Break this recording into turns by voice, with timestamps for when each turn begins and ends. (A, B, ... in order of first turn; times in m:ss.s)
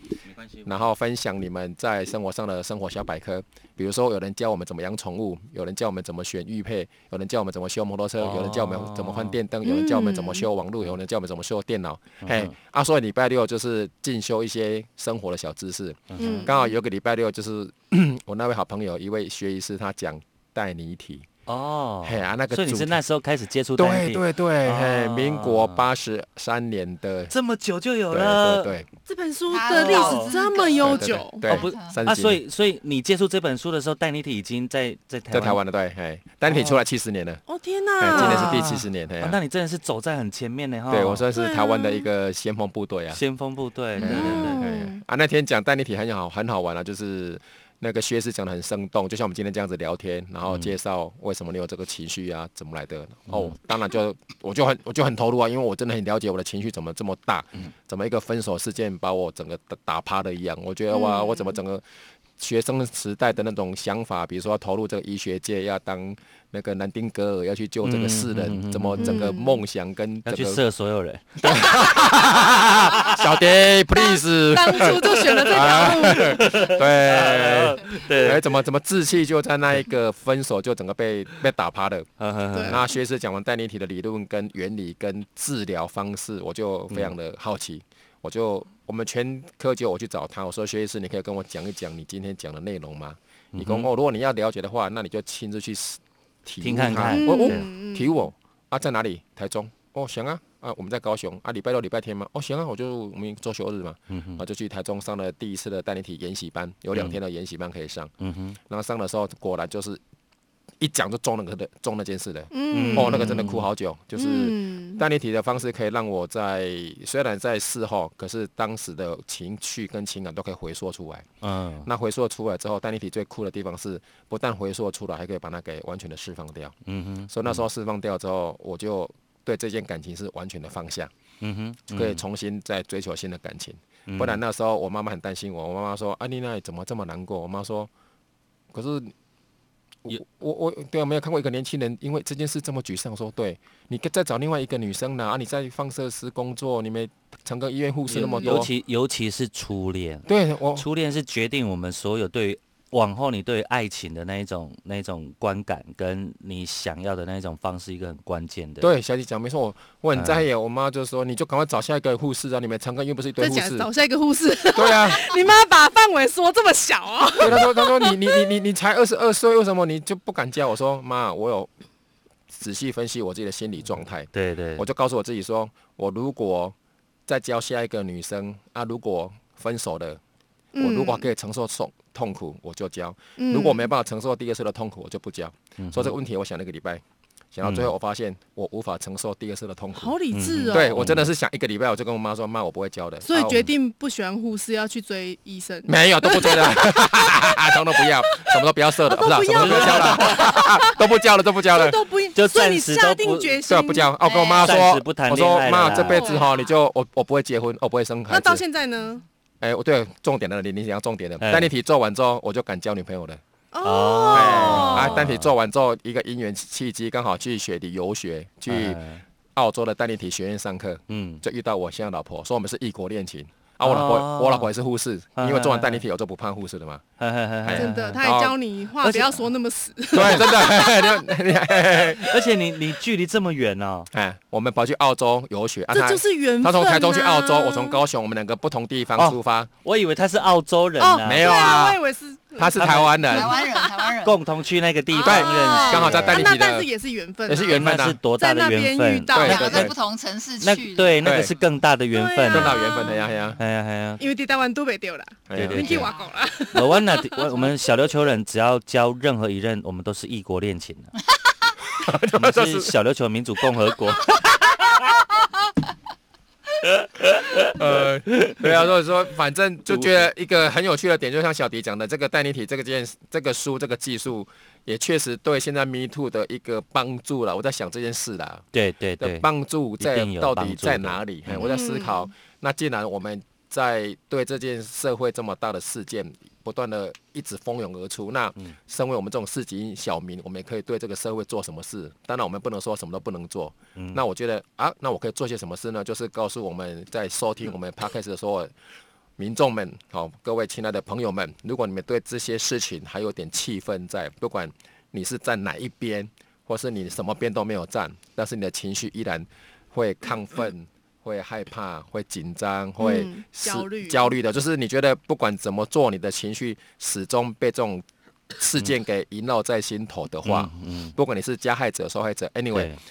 0:00.3-0:00.7 A
0:00.6-0:21.3 B
0:08.2-0:09.4 A
0:09.6-0:10.5 C
0:12.2-0:12.5 A
0:16.1-0:16.5 A
0:16.2-0:16.6 C
0:21.5-0:25.8 A
0:22.0-0:23.0 B
0:23.8-0:27.3 B
0:27.3-0:28.8 A
0:28.1-0:28.8 B
0:29.0-0:31.4 C
0:29.5-0:32.0 D
0:29.6-0:30.3 A
0:30.8-0:32.4 B
0:31.4-0:35.6 A
0:35.3-0:37.4 B
0:36.5-0:36.8 A
0:37.5-0:38.7 C
0:38.0-0:39.4 B
0:38.0-0:41.2 A
0:40.9-0:43.2 B
0:41.3-0:42.1 C
0:43.1-0:44.8 A
0:44.0-0:45.0 C
0:44.0-1:01.8 B
0:50.5-0:50.7 A
0:53.3-0:53.5 A
1:00.9-1:01.5 C
1:02.4-1:10.6 B
1:07.8-1:09.3 A
1:09.0-1:09.6 C
1:10.2-1:13.3 A
1:11.4-1:22.1 B
1:14.0-1:16.5 C
1:14.7-1:18.4 A
1:22.2-1:22.8 A
1:22.5-1:22.8 C
1:22.6-1:48.1 B
1:26.9-1:27.1 A
1:33.5-1:33.9 A
1:36.6-1:37.7 A
1:37.0-1:38.3 C
1:44.1-1:44.4 A
1:48.2-1:48.6 A
1:48.7-1:50.0 B
1:50.8-2:01.3 B
1:52.5-1:53.4 C
1:52.7-1:53.7 A
1:54.2-1:55.0 C
2:01.4-2:01.9 A
2:01.8-2:06.7 B
2:06.8-2:07.6 A
2:07.3-2:11.1 B
2:11.4-2:12.2 A
2:11.9-2:17.9 B
2:14.1-2:14.4 A
2:18.7-2:19.1 B
2:20.0-2:28.7 B
2:28.1-2:38.9 A
2:30.3-2:30.8 B
2:38.8-2:43.9 B
2:40.1-2:40.4 A
2:43.4-2:48.2 C
2:44.7-2:45.4 B
2:47.4-2:51.7 B
2:52.5-2:56.7 B
2:54.3-2:54.8 A
2:57.3-3:00.2 B
3:00.7-3:01.2 C
3:00.8-3:07.0 B
3:03.4-3:03.9 C
3:05.8-3:06.1 A
3:07.5-3:10.2 B
3:07.6-3:07.9 A
3:09.9-3:11.1 C
3:10.3-3:11.2 A
3:10.7-3:13.7 B
3:13.2-3:18.5 C
3:15.9-3:22.0 B
3:19.0-3:21.0 C
3:19.5-3:20.6 A
3:21.7-3:24.1 C
3:22.3-3:23.6 A
3:23.6-3:28.6 B
3:24.2-3:24.8 D
3:24.6-3:26.3 A
3:25.9-3:26.5 C
3:28.3-3:29.2 C
3:29.6-3:33.4 B
3:31.4-3:31.7 A
3:33.7-3:35.2 C
3:33.8-3:35.5 A
3:34.3-3:39.0 B
3:38.7-3:39.2 A
3:39.6-3:47.0 B
3:41.1-3:41.4 A
3:43.8-3:44.7 A
3:45.4-3:46.0 A
3:47.2-3:48.2 A
3:47.6-3:48.6 B
3:47.7-3:51.3 C
3:49.0-3:49.4 A
3:50.1-3:52.4 B
3:50.2-3:50.4 A
3:52.2-3:54.1 A
3:54.1-3:59.7 B
3:55.9-3:58.0 C
3:59.2-4:01.8 A
4:01.0-4:04.1 C
4:01.2-4:02.0 B
4:02.6-4:03.5 B
4:02.8-4:03.1 A
4:03.3-4:04.4 D
4:04.2-4:06.5 A
4:05.1-4:09.9 C
4:05.2-4:06.9 B
4:07.4-4:08.2 B
4:07.6-4:09.9 A
4:09.3-4:09.9 B
4:09.4-4:11.5 D
4:10.6-4:12.9 A
4:11.2-4:11.5 B
4:12.1-4:13.3 C
4:12.5-4:13.6 B
4:13.6-4:14.2 A
4:14.2-4:17.7 C
4:15.5-4:16.1 B
4:15.5-4:16.1 A
4:16.7-4:21.1 A
4:22.0-4:22.9 B
4:22.3-4:25.2 A
4:26.8-4:28.7 A
4:27.7-4:38.6 B
4:29.9-4:30.2 A
4:38.7-4:39.5 A
4:39.2-4:58.7 B
4:40.0-4:41.7 A
4:41.6-4:42.3 C
4:54.0-4:54.2 A
4:59.4-5:18.0 B
5:13.0-5:14.3 C
5:18.6-5:22.9 B
5:20.4-5:21.1 A
5:22.7-5:23.0 A